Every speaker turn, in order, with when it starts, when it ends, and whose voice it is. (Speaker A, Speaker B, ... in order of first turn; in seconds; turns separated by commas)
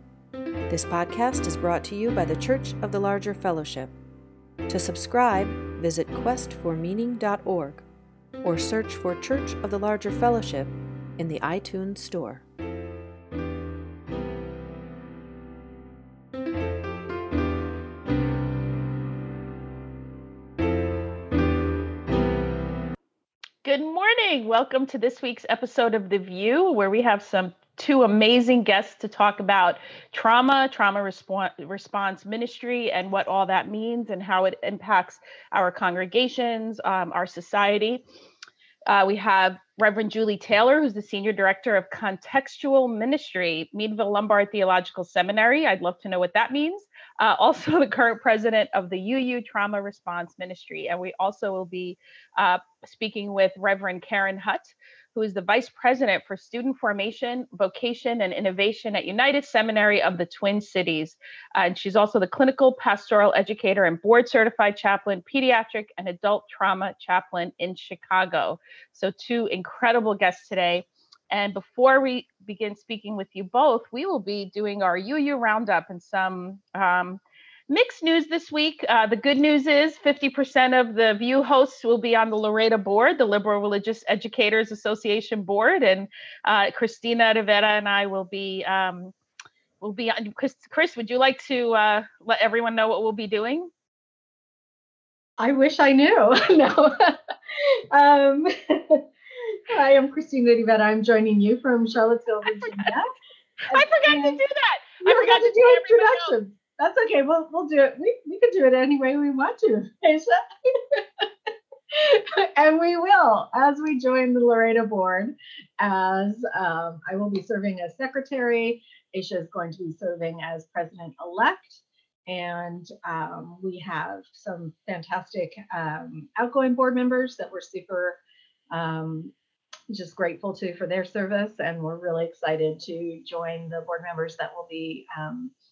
Speaker A: 0.7-4.0, Speaker A: 4.7-7.8, Speaker A: 8.4-12.4, Speaker B: 23.6-38.0, Speaker B: 38.9-89.1, Speaker B: 89.8-93.7, Speaker C: 95.4-99.0, Speaker C: 99.7-103.2, Speaker B: 102.5-102.9, Speaker C: 103.7-104.4, Speaker B: 103.7-106.3, Speaker C: 105.0-111.3, Speaker C: 111.9-128.2, Speaker C: 128.7-129.3, Speaker C: 129.9-135.5